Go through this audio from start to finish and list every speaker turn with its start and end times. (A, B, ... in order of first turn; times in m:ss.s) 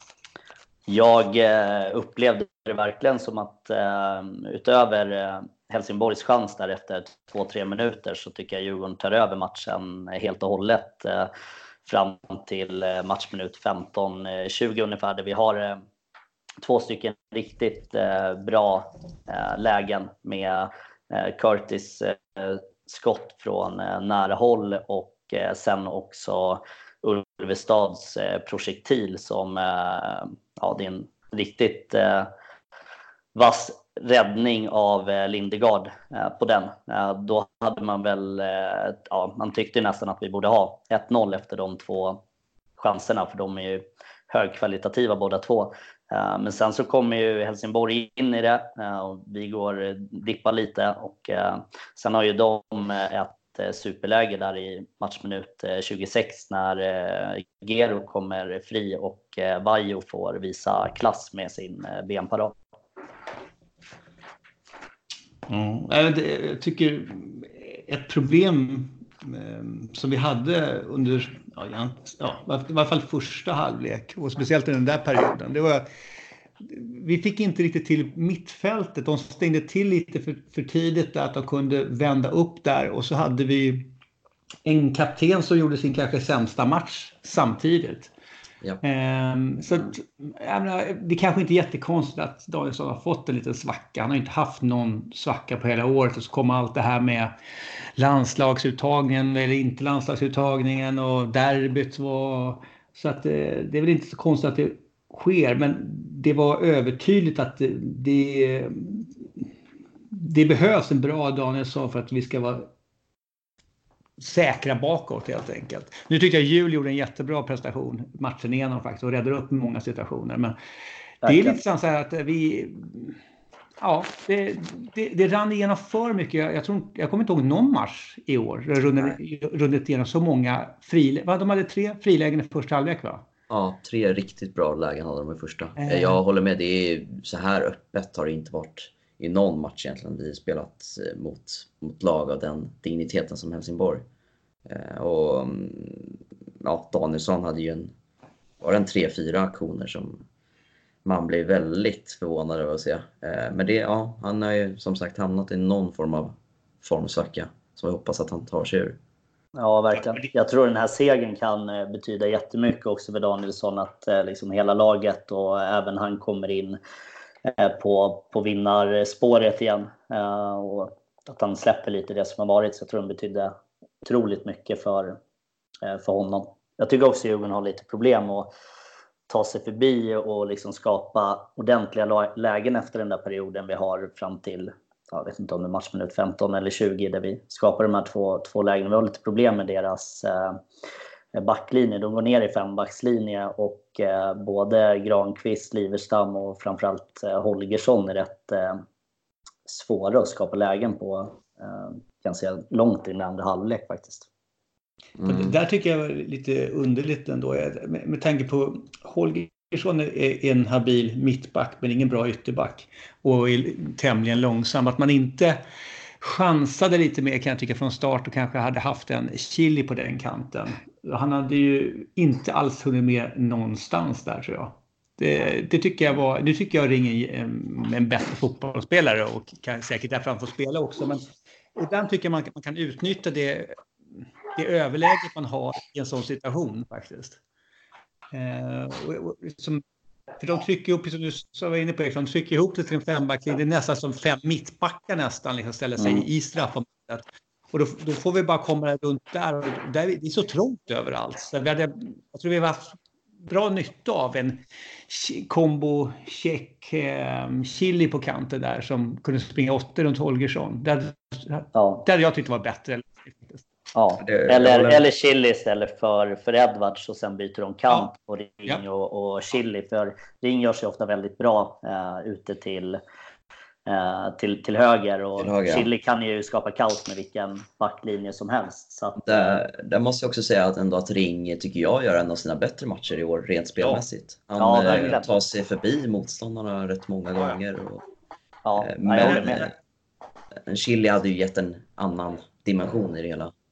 0:00.9-0:11.3 A
0:11.8-0:15.8 A
0:16.6-0:32.3 A
0:33.3-0:42.2 A
0:42.8-1:02.6 A
1:05.5-1:15.9 B
1:16.6-1:23.9 B
1:24.6-1:28.1 B
1:28.8-1:37.3 B
1:38.0-1:49.4 B
1:50.1-1:52.7 B
1:54.2-2:00.5 B
2:01.2-2:01.6 A
2:01.2-2:03.2 B
2:03.8-2:13.2 B
2:13.5-2:24.0 C
2:15.8-2:16.2 B
2:24.7-2:27.9 C
2:28.6-2:30.2 C
2:31.0-2:39.0 C
2:39.6-2:46.8 A
2:47.4-2:55.2 A
2:55.8-2:58.5 A
2:59.3-3:10.6 A
3:11.3-3:18.8 A
3:19.7-3:24.3 A
3:25.2-3:25.6 C
3:25.2-3:35.6 B
3:36.2-3:53.8 B
3:54.5-3:57.4 B
3:58.3-3:59.8 B
4:00.4-4:23.6 B
4:06.0-4:06.2 A
4:21.8-4:22.0 A
4:23.9-4:33.0 A
4:24.2-4:25.0 C
4:33.8-4:39.6 A
4:35.4-4:35.9 C
4:39.2-4:48.0 C
4:44.6-4:45.3 A
4:48.6-4:49.7 A
4:48.8-4:49.7 C
4:49.2-4:49.6 B
4:50.7-4:53.5 C